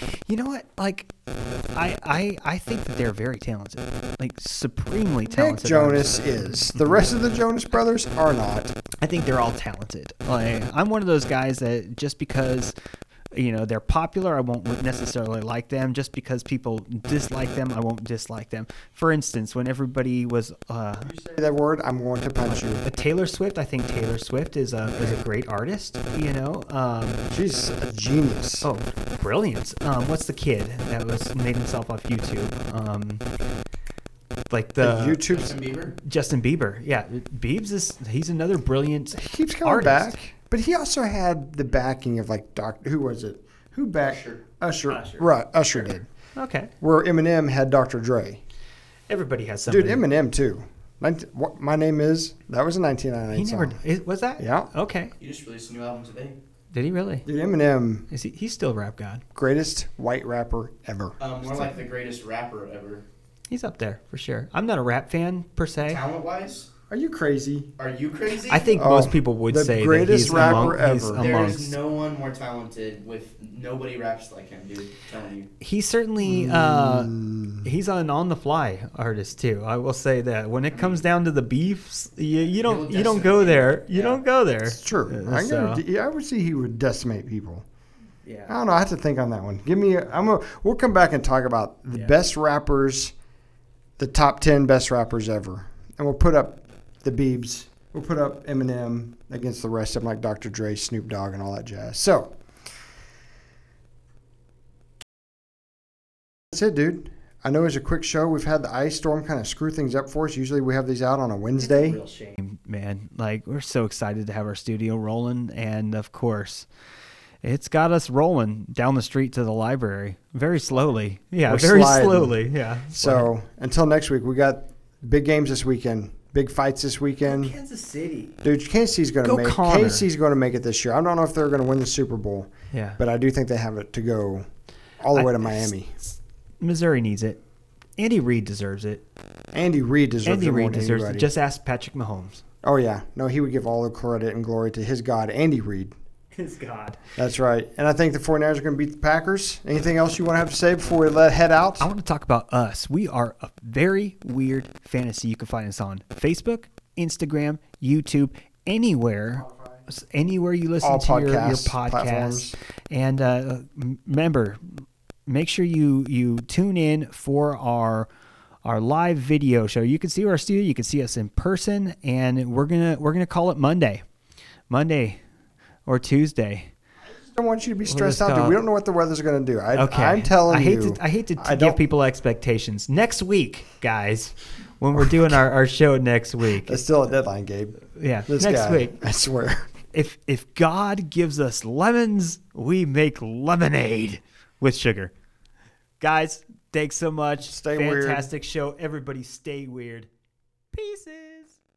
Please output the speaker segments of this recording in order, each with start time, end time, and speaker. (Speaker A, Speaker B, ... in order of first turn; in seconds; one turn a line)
Speaker A: 0.1-1.1
Speaker A: 1.7-7.1
Speaker B: 5.3-8.7
Speaker A: 9.0-12.7
Speaker A: 13.3-21.1
Speaker B: 21.1-22.8
Speaker A: 22.4-27.3
Speaker B: 27.3-28.7
Speaker A: 28.6-33.2
Speaker A: 34.5-35.4
Speaker B: 34.8-35.6
Speaker C: 35.3-35.9
Speaker A: 35.9-40.1
Speaker B: 39.1-46.1
Speaker C: 44.0-44.4
Speaker A: 44.9-45.3
Speaker A: 46.4-46.7
Speaker B: 46.8-48.4
Speaker A: 49.1-50.0
Speaker B: 49.7-53.8
Speaker A: 53.3-55.1
Speaker B: 54.4-54.7
Speaker C: 55.2-56.4
Speaker A: 56.7-57.2
Speaker B: 57.2-58.1
Speaker A: 58.1-59.2
Speaker B: 59.3-61.2
Speaker C: 61.2-63.0
Speaker A: 63.5-66.0
Speaker C: 65.8-66.7
Speaker B: 66.9-67.7
Speaker C: 67.8-68.7
Speaker A: 68.5-71.8
Speaker B: 68.7-71.5
Speaker C: 70.2-75.5
Speaker A: 75.6-85.8
Speaker B: 76.2-77.7
Speaker C: 80.7-81.0
Speaker C: 82.6-84.2
Speaker B: 84.7-87.7
Speaker A: 88.2-88.5
Speaker B: 88.5-93.1
Speaker B: 94.0-102.4
Speaker B: 106.5-112.0
Speaker A: 111.6-116.7
Speaker A: 117.4-123.3
Speaker B: 121.5-127.6
Speaker A: 127.2-128.3
Speaker B: 128.4-134.4
Speaker A: 129.2-130.1
Speaker A: 132.7-133.0
Speaker B: 135.0-135.9
Speaker A: 135.1-137.4
Speaker A: 138.0-139.0
Speaker B: 139.5-141.3
Speaker A: 140.2-142.4
Speaker B: 142.6-145.9
Speaker A: 146.3-147.0
Speaker B: 147.2-151.9
Speaker A: 151.8-168.1
Speaker B: 160.8-162.6
Speaker A: 168.6-174.0
Speaker A: 174.7-175.2
Speaker A: 175.8-176.7
Speaker B: 177.1-181.8
Speaker A: 177.8-178.6
Speaker A: 179.7-186.8
Speaker B: 184.9-185.4
Speaker B: 186.6-189.8
Speaker A: 187.9-189.0
Speaker A: 189.9-195.1
Speaker A: 196.0-200.1
Speaker B: 197.4-198.3
Speaker A: 200.7-201.6